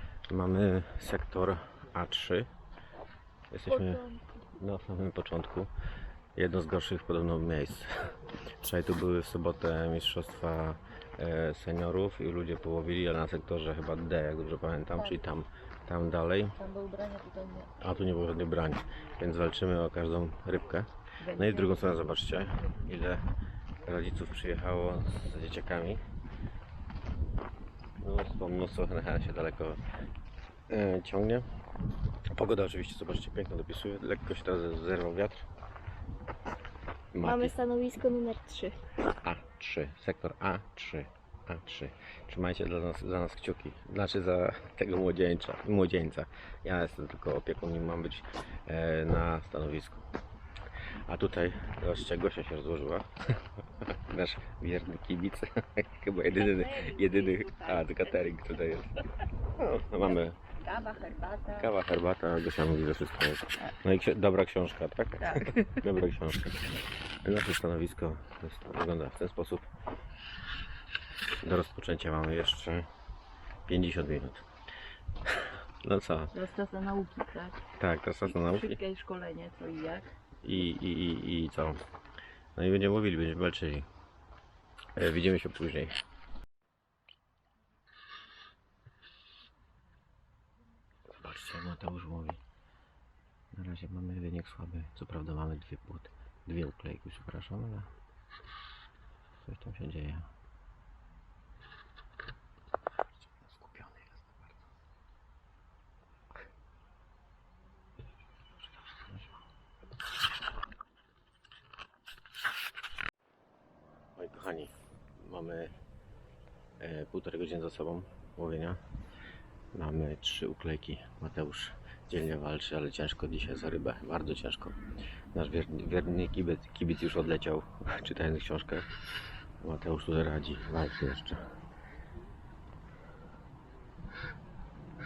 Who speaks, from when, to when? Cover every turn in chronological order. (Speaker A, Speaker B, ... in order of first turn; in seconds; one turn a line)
Speaker A: 0.3-2.5
Speaker A: 3.5-4.0
Speaker B: 3.7-4.2
Speaker A: 4.6-5.7
Speaker A: 6.3-7.9
Speaker A: 8.6-16.5
Speaker C: 16.6-17.7
Speaker A: 17.8-23.2
Speaker C: 21.2-21.8
Speaker A: 23.8-26.0
Speaker A: 28.0-29.8
Speaker A: 30.7-31.5
Speaker A: 32.3-35.5
Speaker A: 37.1-37.6
Speaker B: 37.2-38.8
Speaker A: 39.2-50.1
Speaker A: 51.1-58.9
Speaker C: 56.5-57.7
Speaker A: 59.6-60.4
Speaker C: 60.0-61.7
Speaker A: 61.5-69.7
Speaker C: 65.2-65.7
Speaker A: 71.4-72.9
Speaker A: 73.7-74.5
Speaker A: 75.8-76.3
Speaker C: 76.3-77.6
Speaker A: 77.8-78.8
Speaker C: 78.3-80.1
Speaker A: 80.4-81.8
Speaker A: 82.5-83.9
Speaker A: 85.0-86.0
Speaker A: 91.2-92.4
Speaker A: 93.5-97.9
Speaker A: 99.5-100.3
Speaker A: 103.3-104.5
Speaker A: 114.2-115.7
Speaker A: 116.8-118.8
Speaker A: 119.7-124.8
Speaker A: 125.3-128.9
Speaker A: 129.6-131.4